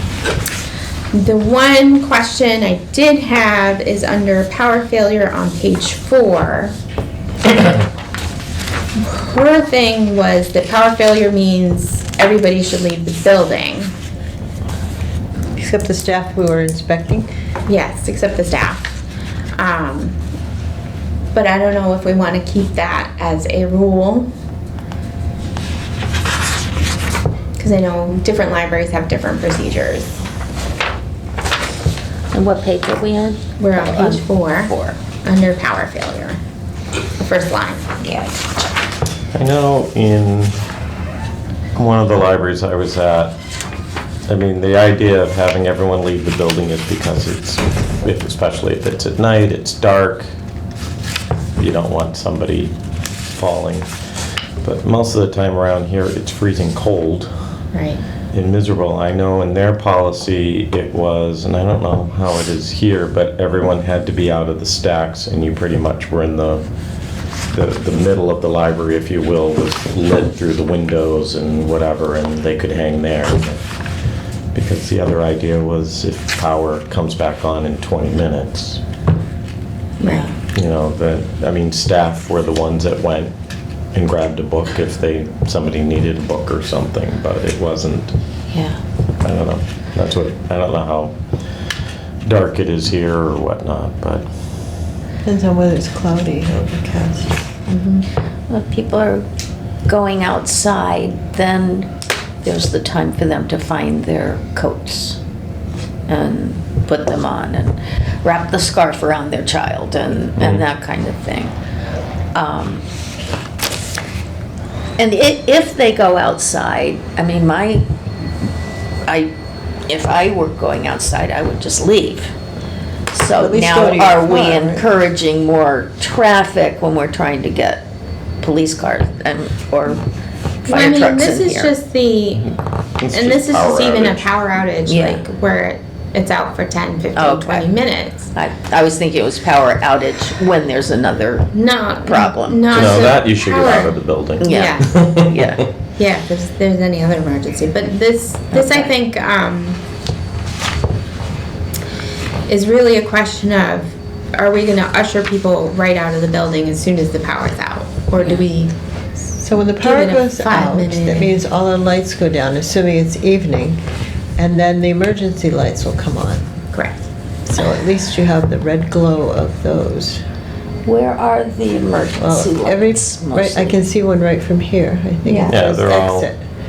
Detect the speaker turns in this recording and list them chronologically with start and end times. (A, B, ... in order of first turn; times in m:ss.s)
0:01.1-0:06.7 A
0:09.0-0:13.9 A
0:15.6-0:17.3 B
0:17.6-0:18.9 A
0:19.6-0:20.2 A
0:21.3-0:24.3 A
0:27.6-0:30.2 A
0:32.3-0:35.0 C
0:33.6-0:36.4 A
0:37.2-0:38.1 A
0:39.3-0:40.6 D
0:41.8-0:43.3 D
0:44.3-0:50.3 D
0:51.6-0:52.7 D
0:53.3-0:53.9 D
0:54.6-0:57.3 D
0:57.7-0:58.0 A
0:58.3-1:06.6 D
1:07.5-1:13.6 D
1:14.5-1:18.8 D
1:20.0-1:20.3 C
1:20.0-1:20.3 A
1:20.5-1:23.3 D
1:23.9-1:28.2 D
1:28.5-1:28.8 C
1:29.2-1:31.1 D
1:32.2-1:34.2 D
1:35.2-1:37.3 B
1:37.7-1:38.0 A
1:38.5-1:39.2 C
1:39.8-1:41.9 C
1:42.4-1:45.2 C
1:46.1-1:51.5 C
1:50.4-1:50.6 D
1:52.3-1:52.8 C
1:55.0-1:57.8 C
1:59.0-1:59.3 C
1:59.9-2:02.3 C
2:03.1-2:07.8 C
2:03.4-2:04.8 B
2:08.4-2:10.0 C
2:10.6-2:11.7 C
2:10.6-2:12.6 A
2:13.0-2:14.3 D
2:13.1-2:18.3 A
2:14.9-2:15.2 C
2:17.2-2:17.7 C
2:18.3-2:21.5 C
2:21.5-2:25.2 A
2:22.0-2:22.9 C
2:22.7-2:25.5 D
2:24.4-2:25.6 C
2:26.0-2:29.8 A
2:28.5-2:28.9 C
2:32.5-2:38.7 A
2:39.3-2:43.8 B
2:39.8-2:41.4 A
2:44.4-2:46.4 B
2:46.7-2:47.0 A
2:47.4-2:50.2 B
2:50.8-2:53.8 C
2:52.2-2:56.4 B
2:55.2-2:55.6 A
2:55.5-2:56.3 D